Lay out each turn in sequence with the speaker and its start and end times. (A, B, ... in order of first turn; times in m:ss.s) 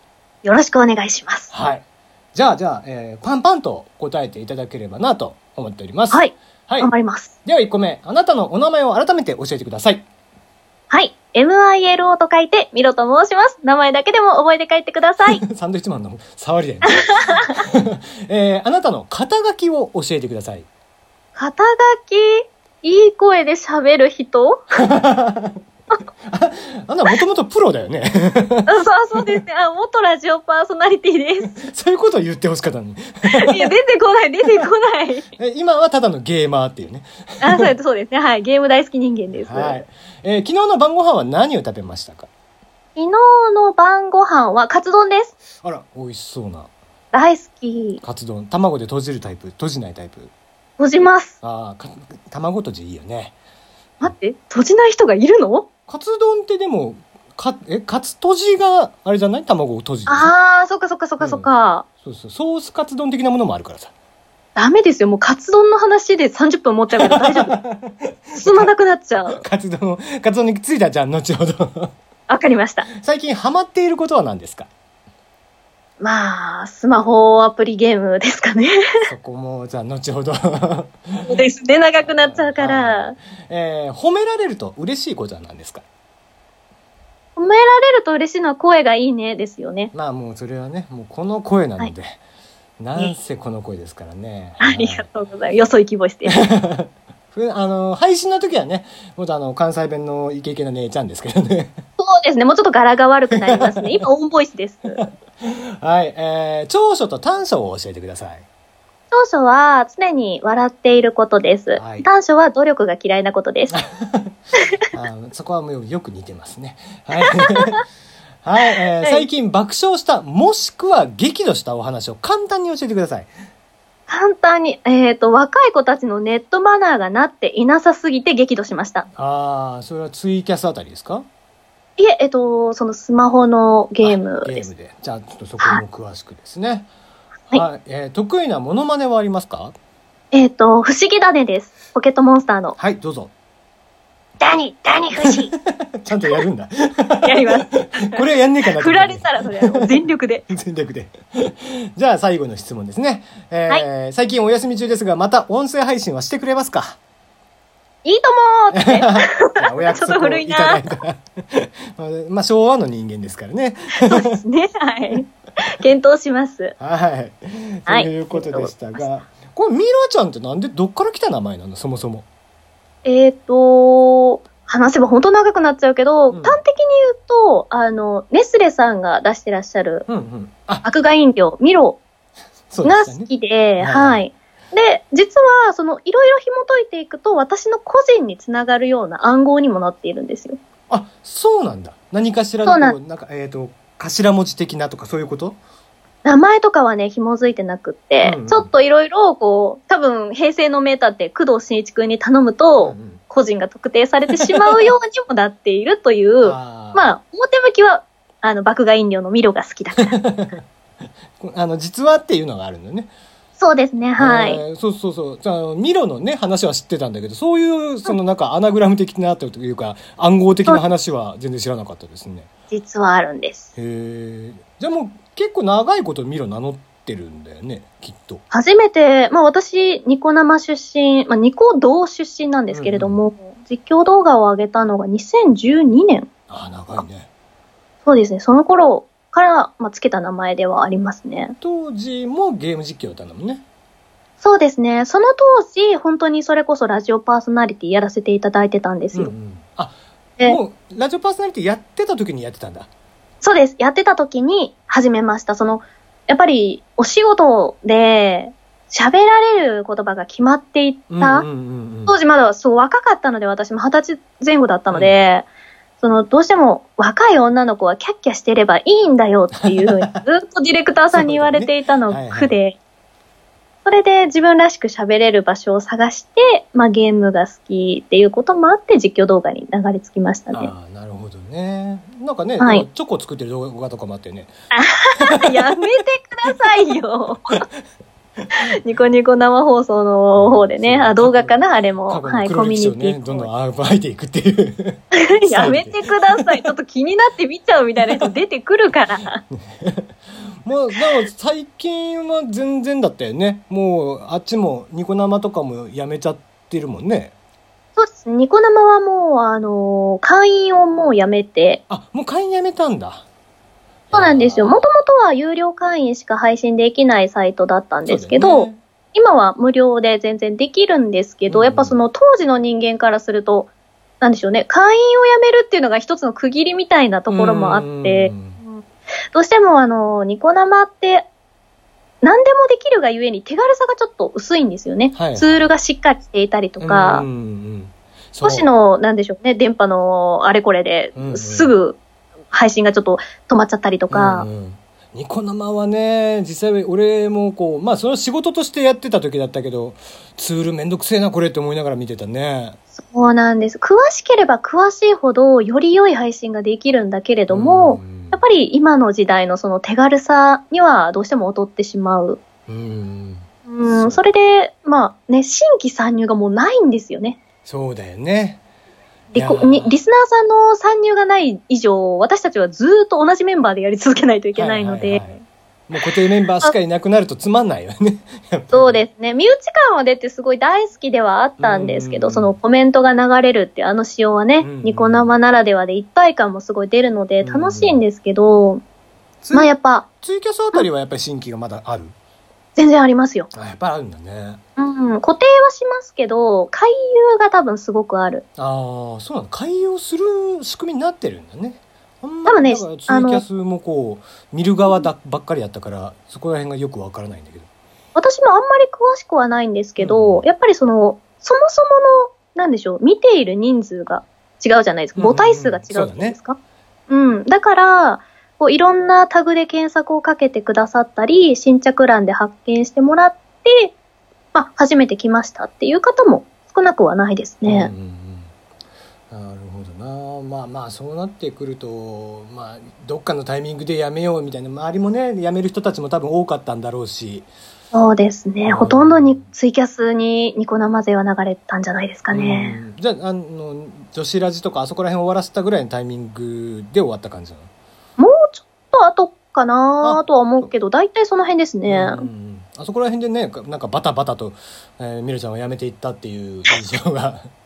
0:00.4-0:01.5 A
0:01.5-0:06.9 B
0:06.1-0:07.3 A
0:07.4-0:10.0 B
0:10.9-0:15.4 A
0:15.2-0:20.7 B
0:16.9-0:17.6 A
0:21.4-0:24.8 A
0:24.8-0:25.6 B
0:26.3-0:28.7 B
0:28.7-0:31.6 A
0:31.4-0:33.7 B
0:33.3-0:35.3 A
0:35.4-0:37.7 B
0:37.4-0:39.8 A
0:39.3-0:42.3 B
0:43.0-0:45.3 A
0:45.6-0:46.7 B
0:47.1-0:48.0 A
0:48.0-0:50.3 B
0:50.8-0:51.4 A
0:51.4-0:53.3 B
0:54.0-0:55.7 A
0:55.9-1:00.3 B
1:00.1-1:01.8 A
1:01.2-1:01.5 B
1:02.0-1:03.9 B
1:04.6-1:07.6 A
1:07.0-1:08.7 B
1:08.4-1:09.4 A
1:09.3-1:11.9 B
1:12.3-1:12.9 A
1:13.0-1:14.7 B
1:16.0-1:18.8 A
1:19.0-1:21.4 B
1:21.2-1:23.2 A
1:22.0-1:25.8 B
1:27.4-1:29.9 A
1:29.9-1:32.2 B
1:32.8-1:35.1 B
1:34.6-1:36.5 A
1:36.3-1:41.8 B
1:42.0-1:45.0 A
1:43.3-1:44.0 B
1:44.9-1:48.4 B
1:49.1-1:53.8 A
1:51.8-1:52.0 B
1:53.7-1:54.3 B
1:54.9-1:57.8 B
1:57.4-1:57.8 A
1:58.4-2:03.3 B
1:59.0-1:59.3 A
2:04.1-2:09.1 A
2:09.2-2:11.2 B
2:12.0-2:14.7 A
2:14.0-2:16.9 B
2:17.5-2:19.7 B
2:20.3-2:22.8 A
2:22.8-2:23.3 B
2:24.4-2:25.5 A
2:25.1-2:29.9 B
2:27.2-2:28.2 A
2:28.7-2:30.4 A
2:30.5-2:37.0 B
2:38.0-2:40.8 A
2:38.7-2:44.4 B
2:44.0-2:46.7 A
2:46.8-2:52.2 B
2:47.9-2:49.1 A
2:53.0-3:00.0 A
2:56.3-2:56.6 B
3:00.1-3:00.8 B
3:00.8-3:02.0 A
3:02.7-3:04.2 B
3:02.8-3:10.6 A
3:10.9-3:15.6 B
3:12.6-3:13.0 A
3:16.2-3:30.1 A
3:18.2-3:18.7 B
3:22.8-3:23.2 B
3:24.4-3:24.9 B
3:26.4-3:27.1 B
3:30.0-3:30.6 B
3:31.4-3:33.1 B
3:33.6-3:34.6 A
3:34.2-3:42.5 B
3:42.7-3:43.7 A
3:43.8-3:48.4 B
3:48.5-3:56.3 A
3:52.7-3:53.2 B
3:56.5-3:57.3 B
3:58.0-4:01.6 A
4:01.6-4:03.6 B
4:04.4-4:09.3 A
4:09.1-4:12.9 B
4:13.4-4:21.5 A
4:21.1-4:22.2 B
4:22.1-4:25.5 A
4:24.9-4:25.2 B
4:26.0-4:32.8 A
4:29.6-4:30.2 B
4:31.1-4:32.6 B
4:33.8-4:40.7 A
4:40.5-4:44.5 B
4:42.6-4:42.8 A
4:44.7-4:47.6 A
4:45.2-4:45.7 B
4:48.7-4:53.5 A
4:50.4-4:56.6 B
4:55.1-4:59.4 A
4:59.7-5:00.0 B
5:00.6-5:07.3 B
5:08.0-5:11.8 A
5:11.9-5:13.2 B
5:14.1-5:14.7 B
5:14.1-5:23.7 A
5:18.0-5:18.8 B
5:21.5-5:22.0 B
5:24.2-5:31.3 A
5:27.3-5:28.6 B
5:32.2-5:37.2 A
5:35.1-5:35.7 B
5:36.8-5:38.7 B
5:38.4-5:42.0 A
5:41.1-5:41.7 B
5:42.5-5:44.5 A
5:44.1-5:52.8 B
5:53.0-6:02.4 A
5:57.5-5:58.4 B
6:02.7-6:04.2 B
6:03.7-6:07.4 A
6:07.6-6:08.6 B
6:09.3-6:15.3 A
6:09.3-6:09.9 B
6:14.6-6:19.0 B
6:18.7-6:28.8 A
6:21.6-6:22.6 B
6:24.6-6:25.3 B
6:27.4-6:28.0 B
6:29.4-6:32.1 B
6:29.5-6:30.1 A
6:32.8-6:33.5 A
6:33.5-6:34.6 B
6:34.8-6:38.4 A
6:38.6-6:47.7 B
6:42.4-6:43.4 A
6:48.1-6:56.6 A
6:50.0-6:50.4 B
6:55.2-6:56.4 B
6:57.1-7:03.9 A
7:04.5-7:07.9 A
7:07.6-7:08.5 B
7:09.3-7:17.5 B
7:17.9-7:22.8 A
7:18.6-7:19.5 B
7:22.3-7:27.7 B
7:28.2-7:32.3 A
7:30.0-7:30.7 B
7:31.9-7:37.5 B